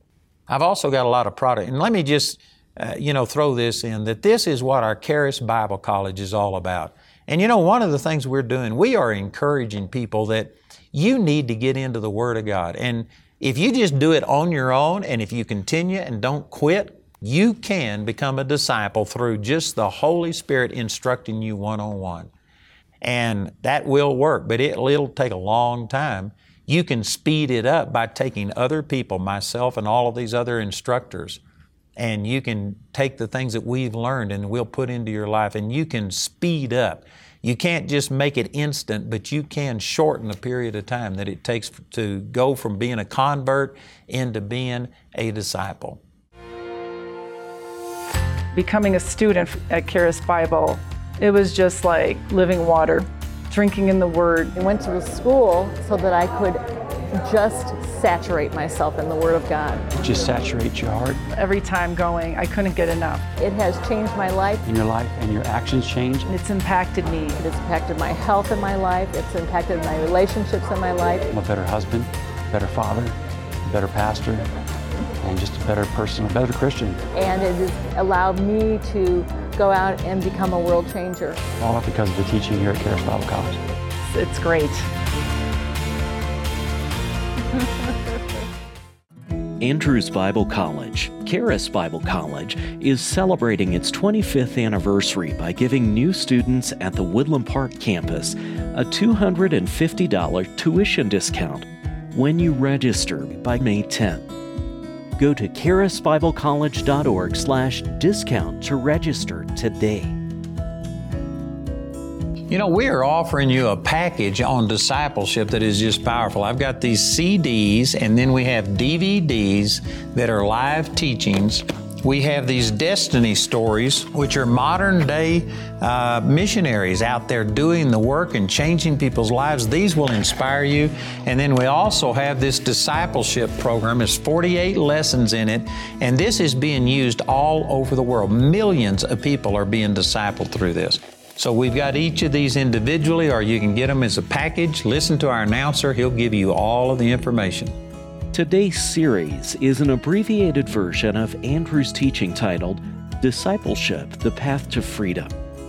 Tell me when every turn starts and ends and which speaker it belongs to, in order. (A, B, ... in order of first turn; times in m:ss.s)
0:00.5-0:22.3 A
0:23.0-0:31.4 A
0:32.0-0:46.0 A
0:48.5-0:54.6 B
0:54.6-0:59.9 C
0:59.9-1:01.2 D
1:01.3-1:03.3 B
1:03.4-1:04.6 C
1:04.6-1:06.3 D
1:06.2-1:07.4 B
1:07.4-1:11.3 C
1:11.3-1:14.5 D
1:15.2-1:17.0 D
1:17.1-1:21.4 C
1:21.6-1:23.6 D
1:24.1-1:24.9 B
1:29.6-1:44.3 E
1:45.2-1:50.2 E
1:52.5-2:27.7 A
2:28.3-2:35.3 E